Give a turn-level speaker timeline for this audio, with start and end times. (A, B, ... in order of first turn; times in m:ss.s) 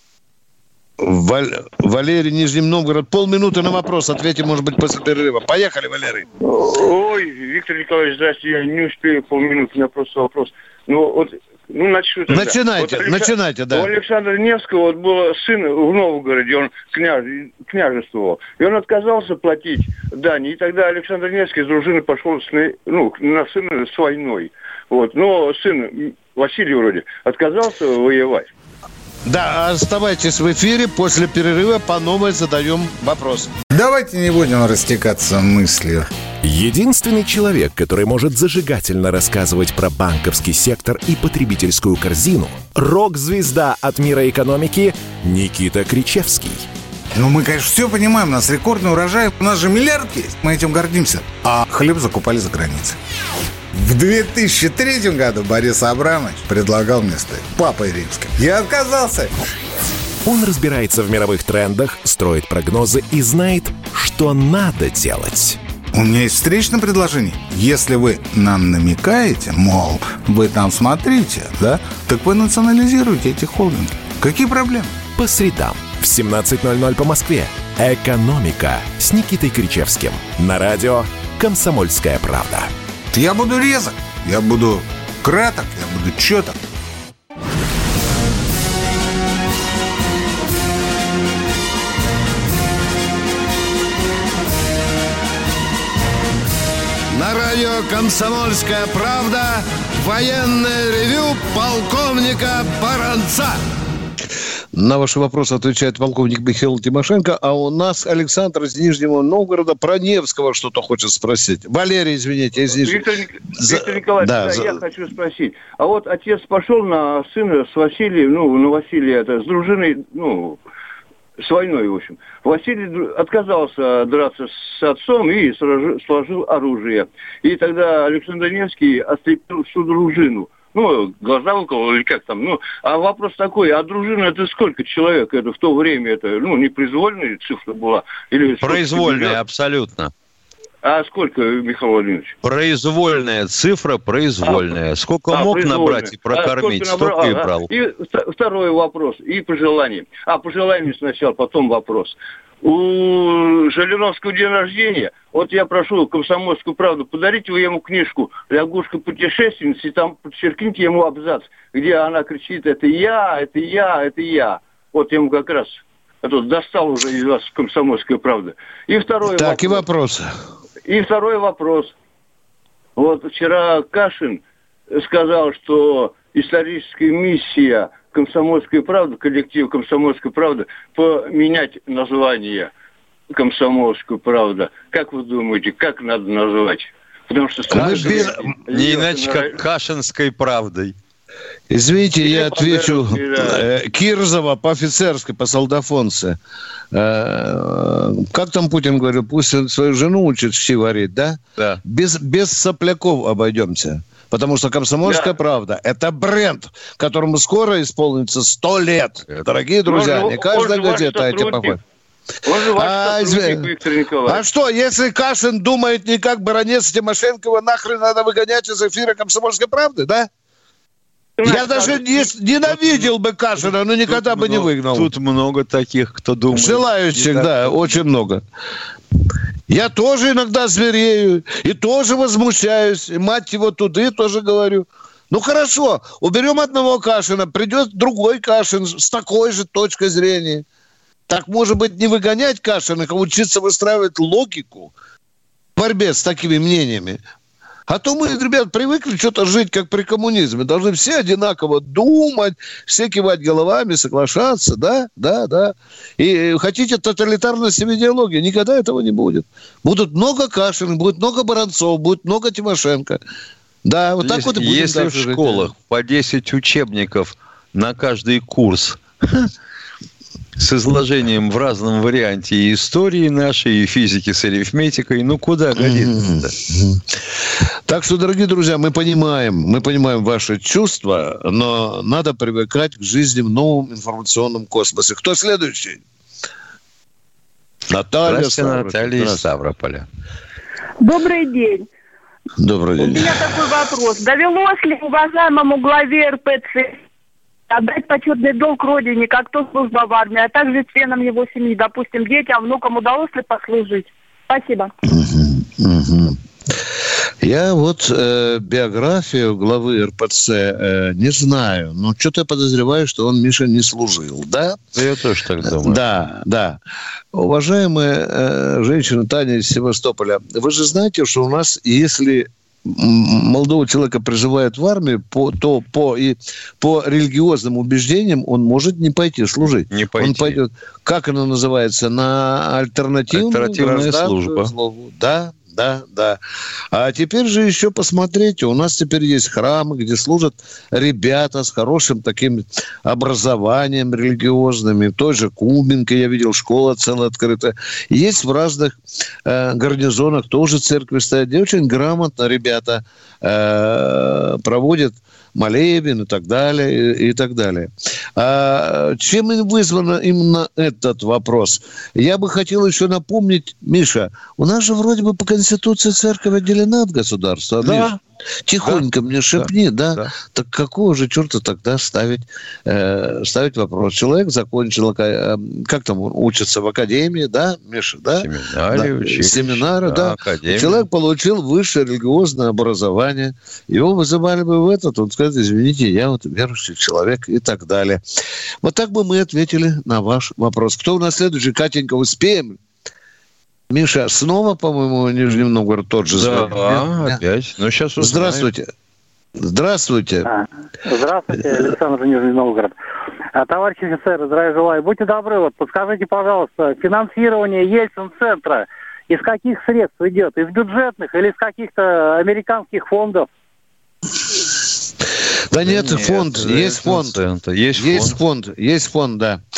0:01.0-0:06.3 A
0:06.4-0:28.5 B
0:12.3-0:13.9 A
0:29.2-0:33.5 A
0:33.7-0:36.1 C
0:36.4-0:46.7 D
0:47.1-0:53.0 C
0:53.7-0:59.3 C
1:00.2-1:05.6 D
1:05.9-1:14.9 C
1:15.2-1:22.7 D
1:23.1-1:26.6 C
1:37.1-1:43.6 A
1:44.7-1:53.0 A
1:52.8-2:00.6 B
1:53.6-1:54.7 A
2:01.4-2:19.4 B
2:18.6-2:20.1 E
2:20.8-2:22.3 B
2:22.4-2:27.7 E
2:24.4-2:24.7 B
2:25.3-2:49.8 B
2:49.3-2:50.3 A
2:50.9-2:51.9 B
2:53.0-3:02.7 B
3:03.3-3:09.6 B
3:07.7-3:08.5 A
3:07.8-3:10.9 E
3:11.7-3:16.4 A
3:12.2-3:13.6 B
3:16.9-3:31.8 A
3:25.0-3:25.3 B
3:29.9-3:31.8 B
3:32.4-3:34.4 B
3:32.7-3:33.7 A
3:34.3-3:40.3 A
3:41.4-3:42.2 B
3:41.4-3:45.1 A
3:42.7-3:43.1 E
3:44.1-3:48.0 E
3:46.5-3:48.4 A
3:49.7-4:00.6 A
4:01.3-4:04.9 A
4:05.8-4:07.2 A
4:07.9-4:23.2 A
4:23.8-4:25.7 A
4:24.2-4:29.5 E
4:30.6-4:36.5 E
4:35.8-4:37.0 A
4:37.9-4:46.0 A
4:47.9-4:49.4 A
4:48.2-4:50.0 E
4:51.0-4:51.9 F
4:52.6-4:53.4 A
4:53.0-4:57.0 F
4:57.7-5:04.9 F
5:05.1-5:06.4 A
5:07.4-5:14.8 A
5:15.0-5:16.0 E
5:15.8-5:16.8 A
5:17.3-5:36.4 A
5:29.9-5:30.6 E
5:33.3-5:34.7 E
5:36.9-6:08.1 A
6:07.8-6:08.2 E
6:08.7-6:28.2 A
6:09.6-6:10.3 E
6:18.4-6:21.0 E
6:28.8-6:32.8 A
6:33.9-6:37.4 A
6:36.3-6:38.7 E
6:38.2-6:38.9 A
6:39.6-6:40.5 A
6:40.4-6:42.9 G
6:43.5-6:53.5 G
6:55.7-6:57.4 A
6:55.8-6:58.4 E
6:58.0-6:59.6 A